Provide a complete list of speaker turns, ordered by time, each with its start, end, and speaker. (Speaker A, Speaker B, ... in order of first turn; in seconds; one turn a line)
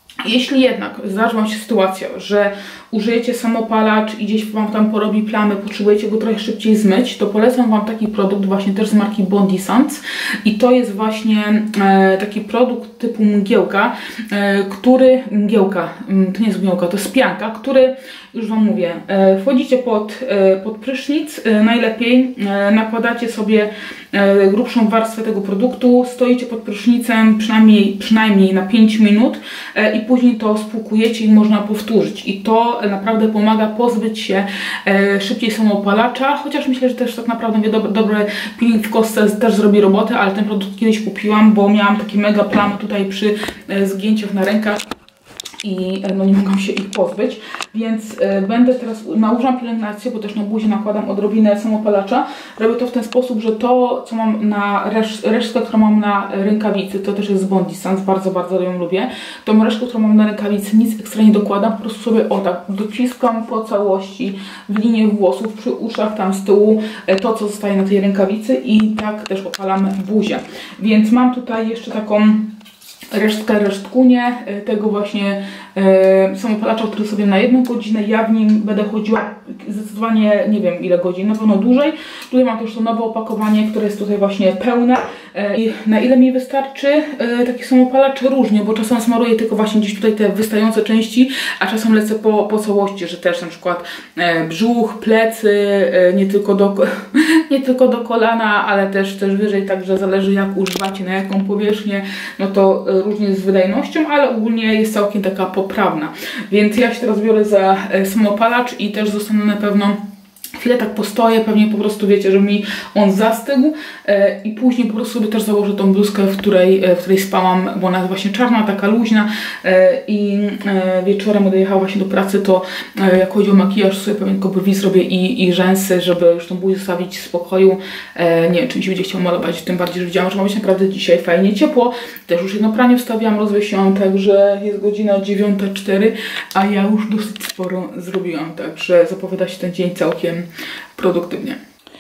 Speaker A: 0.2-44.9
Speaker A: 45.6-72.6
Speaker A: 73.1-110.0
Speaker A: 110.6-141.6